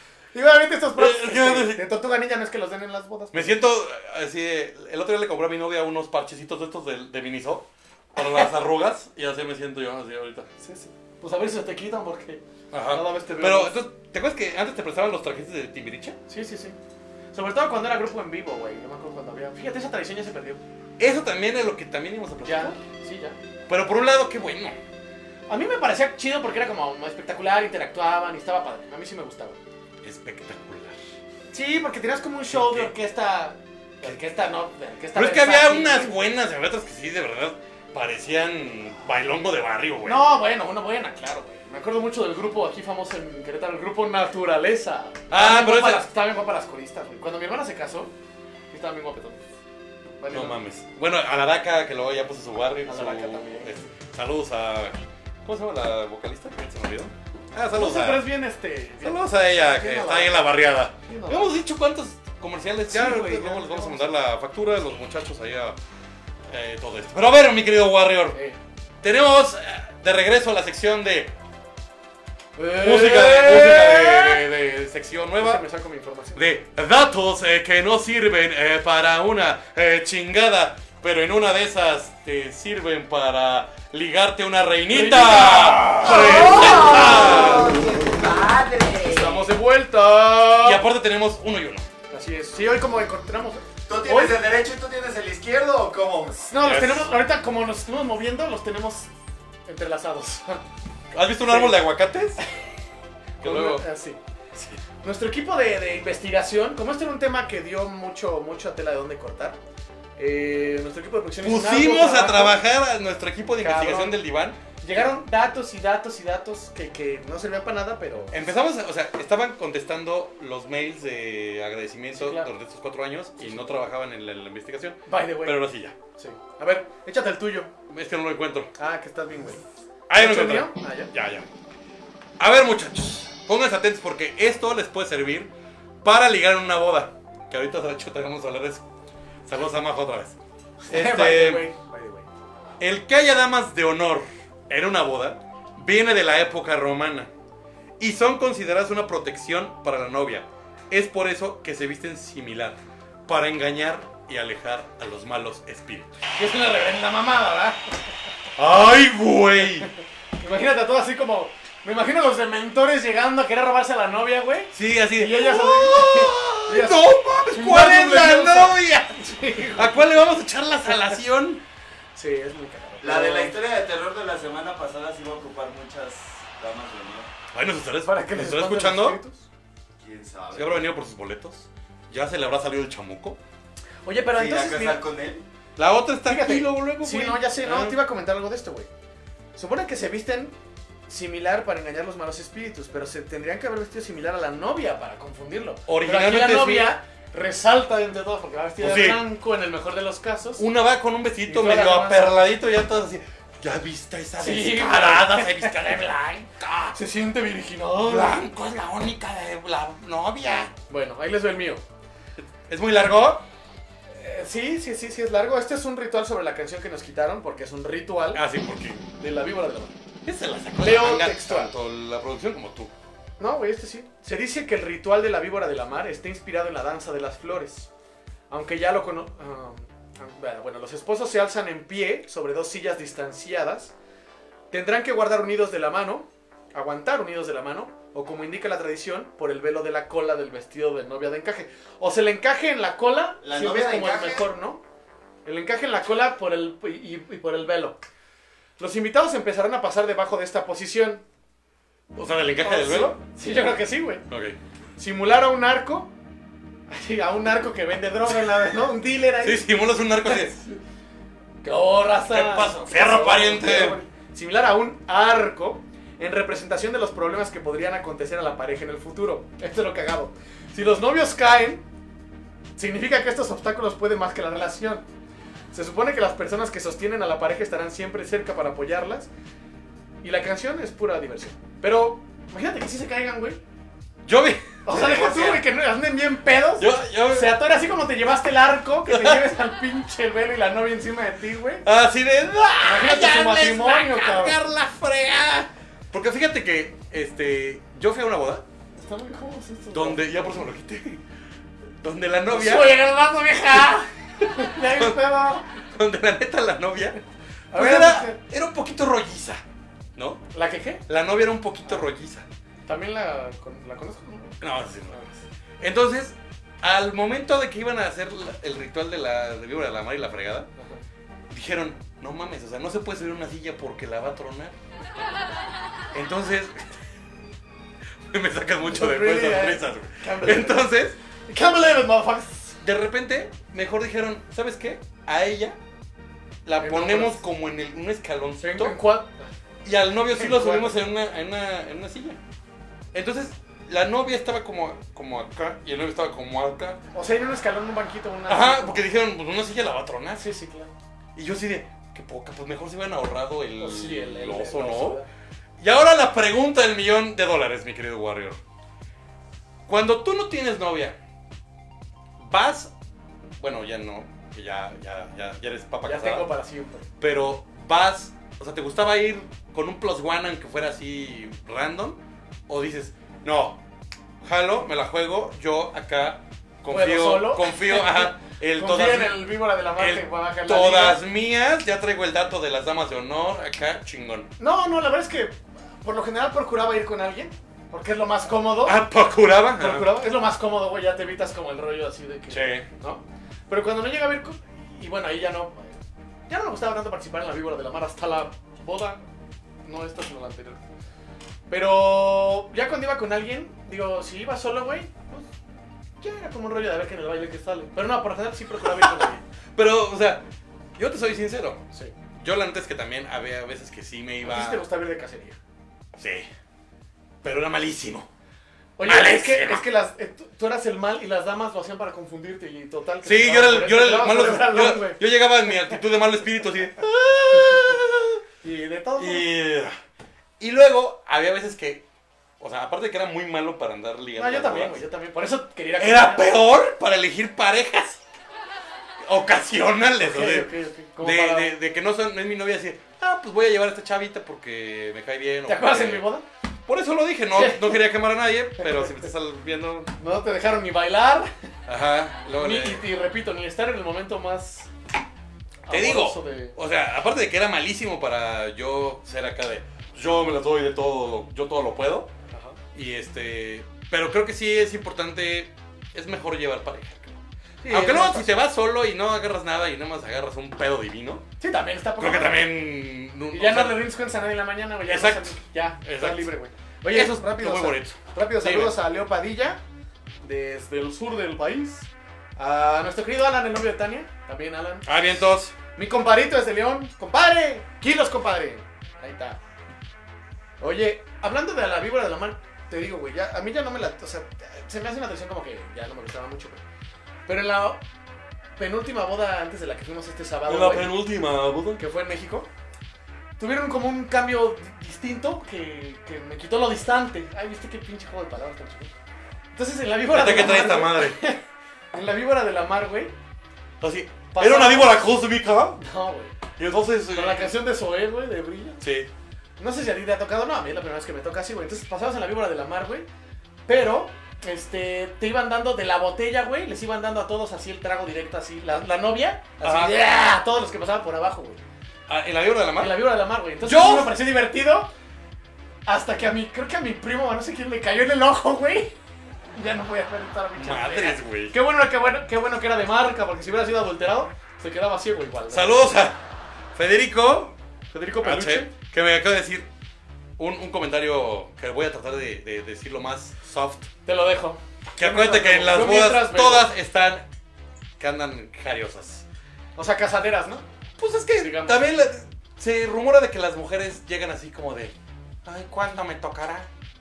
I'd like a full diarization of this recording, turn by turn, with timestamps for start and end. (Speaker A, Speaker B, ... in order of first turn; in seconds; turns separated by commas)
Speaker A: 0.3-3.6, Speaker B: 1.0-1.8, Speaker B: 3.3-10.5, Speaker A: 10.6-13.7, Speaker B: 12.7-16.2, Speaker A: 16.3-16.8, Speaker A: 17.3-20.6, Speaker B: 21.0-22.8, Speaker A: 22.4-23.4, Speaker B: 23.7-24.8, Speaker A: 25.5-29.6, Speaker B: 30.0-31.0, Speaker A: 31.5-36.2, Speaker B: 32.5-32.9, Speaker B: 35.1-40.3, Speaker A: 40.0-48.1, Speaker B: 45.3-46.0, Speaker A: 48.7-49.4, Speaker A: 50.2-50.6, Speaker B: 50.3-58.2, Speaker A: 52.9-53.8, Speaker A: 57.7-60.5, Speaker B: 59.0-65.8, Speaker A: 61.0-61.6, Speaker A: 62.9-64.1, Speaker B: 66.5-68.4, Speaker A: 68.3-68.6, Speaker B: 69.0-71.3, Speaker A: 72.5-74.5, Speaker B: 72.8-75.6, Speaker A: 75.4-76.5, Speaker B: 76.3-87.8, Speaker A: 84.9-87.6, Speaker C: 85.9-89.5, Speaker A: 89.0-90.8, Speaker B: 90.6-91.8, Speaker A: 92.1-94.4, Speaker C: 93.9-96.5, Speaker A: 96.5-99.1, Speaker B: 96.6-97.1, Speaker A: 99.7-100.6, Speaker B: 101.1-102.4, Speaker A: 101.4-101.8, Speaker B: 103.4-103.8, Speaker A: 103.4-104.2, Speaker B: 104.5-104.8, Speaker A: 105.0-109.6, Speaker A: 110.2-112.6, Speaker B: 111.4-114.6, Speaker A: 113.6-114.2, Speaker A: 114.8-118.3, Speaker B: 118.3-125.9, Speaker A: 122.1-122.5, Speaker A: 123.4-123.8, Speaker A: 125.1-125.6, Speaker A: 126.2-127.7, Speaker B: 127.9-128.7, Speaker A: 128.8-129.6, Speaker B: 130.1-131.5, Speaker A: 130.1-131.1, Speaker B: 132.4-135.5, Speaker B: 136.0-138.8, Speaker B: 139.4-140.4, Speaker A: 140.8-142.3, Speaker B: 140.9-141.7, Speaker B: 142.8-147.3, Speaker B: 148.0-156.2, Speaker A: 156.3-157.8, Speaker B: 158.6-159.9, Speaker A: 160.4-170.1, Speaker B: 164.7-171.6, Speaker A: 172.2-173.6, Speaker C: 173.0-177.3, Speaker B: 177.5-179.2, Speaker A: 178.1-179.5, Speaker C: 180.0-180.9, Speaker B: 180.5-183.4, Speaker A: 184.0-185.0, Speaker C: 184.3-185.4, Speaker B: 185.8-188.0, Speaker A: 186.2-188.9, Speaker A: 189.5-190.5, Speaker A: 191.1-200.6, Speaker B: 195.9-196.9, Speaker B: 198.8-199.2, Speaker B: 200.6-207.0, Speaker A: 201.4-202.3, Speaker A: 204.4-205.7, Speaker A: 206.9-208.4, Speaker B: 208.0-210.7, Speaker A: 210.9-211.8, Speaker B: 212.4-213.4, Speaker A: 214.1-218.4, Speaker B: 218.3-219.1, Speaker A: 219.2-219.9, Speaker B: 220.2-222.9, Speaker A: 220.8-221.7, Speaker A: 223.4-227.9, Speaker A: 228.5-233.9, Speaker A: 234.7-244.8, Speaker C: 243.4-244.5, Speaker A: 245.4-248.0, Speaker A: 248.8-251.2, Speaker B: 252.1-253.2, Speaker A: 252.6-254.2, Speaker B: 254.3-254.6, Speaker A: 255.0-256.1, Speaker A: 256.9-259.6, Speaker B: 259.4-260.6, Speaker A: 260.2-260.8, Speaker A: 261.6-271.8, Speaker B: 262.3-264.0, Speaker A: 272.8-275.0, Speaker A: 275.7-279.3, Speaker A: 280.2-283.6, Speaker B: 284.2-285.6, Speaker A: 284.8-291.9, Speaker B: 286.8-287.6, Speaker B: 289.1-289.5, Speaker B: 291.8-298.6, Speaker A: 292.8-294.6, Speaker A: 298.9-300.6, Speaker B: 299.9-301.2, Speaker B: 302.0-303.0, Speaker A: 302.5-305.7, Speaker B: 304.4-305.2, Speaker B: 305.8-307.2, Speaker A: 307.7-308.4, Speaker B: 307.7-309.6, Speaker B: 310.1-310.4, Speaker A: 310.5-311.0, Speaker B: 311.1-312.4, Speaker A: 312.9-315.4, Speaker B: 314.6-315.3, Speaker B: 315.8-320.7, Speaker B: 321.5-324.8, Speaker B: 326.1-326.9, Speaker B: 328.2-331.2, Speaker A: 328.9-330.9, Speaker A: 331.5-332.8, Speaker B: 332.8-335.8, Speaker B: 336.6-339.0, Speaker A: 336.8-337.4, Speaker A: 338.6-339.5, Speaker B: 339.8-342.4, Speaker A: 340.3-341.0, Speaker B: 343.1-347.0, Speaker A: 347.1-349.0, Speaker B: 348.5-350.5, Speaker A: 350.4-350.9, Speaker B: 351.3-355.2, Speaker A: 353.8-355.3, Speaker B: 355.8-358.6, Speaker B: 359.9-361.2, Speaker B: 362.4-362.9, Speaker B: 363.6-366.5, Speaker A: 366.0-367.1, Speaker B: 367.2-373.8, Speaker B: 374.4-384.5, Speaker A: 376.9-381.2, Speaker A: 384.6-389.0, Speaker B: 388.8-390.1, Speaker A: 389.8-399.2, Speaker B: 392.5-392.9, Speaker A: 399.8-400.8, Speaker A: 401.7-405.5, Speaker A: 406.2-409.4, Speaker B: 408.8-411.8, Speaker B: 412.4-414.8, Speaker A: 414.4-415.6, Speaker B: 416.2-416.5, Speaker B: 417.4-418.3, Speaker A: 419.0-425.2, Speaker B: 419.0-419.8, Speaker B: 423.2-428.4, Speaker A: 427.5-428.0, Speaker A: 428.6-429.4, Speaker B: 429.2-429.9, Speaker B: 430.6-432.0, Speaker B: 432.6-435.0, Speaker A: 434.4-436.5, Speaker B: 436.0-438.2, Speaker B: 439.2-446.2, Speaker A: 440.2-441.8, Speaker A: 445.7-446.4, Speaker B: 446.9-450.1, Speaker A: 447.5-448.0, Speaker A: 448.8-449.2, Speaker A: 450.2-451.5, Speaker B: 451.9-453.1, Speaker A: 452.6-454.9, Speaker A: 455.8-456.8, Speaker B: 455.9-462.3, Speaker A: 462.5-462.8, Speaker B: 462.9-471.4, Speaker A: 467.8-468.6, Speaker A: 471.6-472.6, Speaker B: 472.2-474.1, Speaker A: 473.5-479.8, Speaker B: 475.1-476.5, Speaker B: 477.1-478.9, Speaker A: 480.4-485.1, Speaker B: 485.0-485.7, Speaker A: 485.9-489.6, Speaker A: 490.8-496.8, Speaker A: 497.4-498.0, Speaker A: 498.8-501.2, Speaker B: 500.6-502.0, Speaker A: 502.0-502.7, Speaker A: 503.6-509.1, Speaker A: 509.7-511.6, Speaker B: 510.3-511.4, Speaker A: 512.1-513.3, Speaker B: 514.0-516.0, Speaker A: 514.5-515.3, Speaker A: 516.0-516.5, Speaker B: 516.8-517.7, Speaker A: 517.3-519.0, Speaker B: 519.0-519.3, Speaker A: 519.8-523.3, Speaker A: 523.9-531.8, Speaker B: 529.8-530.1, Speaker B: 532.3-533.3, Speaker A: 533.0-535.1, Speaker B: 533.8-534.3, Speaker A: 536.0-539.1, Speaker A: 539.7-546.1, Speaker B: 540.8-541.8, Speaker B: 545.7-546.4, Speaker B: 546.9-547.7, Speaker A: 548.1-548.9, Speaker B: 548.4-549.9, Speaker B: 550.6-554.1, Speaker A: 554.2-556.9, Speaker B: 555.1-557.4, Speaker B: 558.2-559.4, Speaker A: 560.0-560.8, Speaker B: 561.2-565.1, Speaker A: 561.5-562.1, Speaker B: 565.6-566.9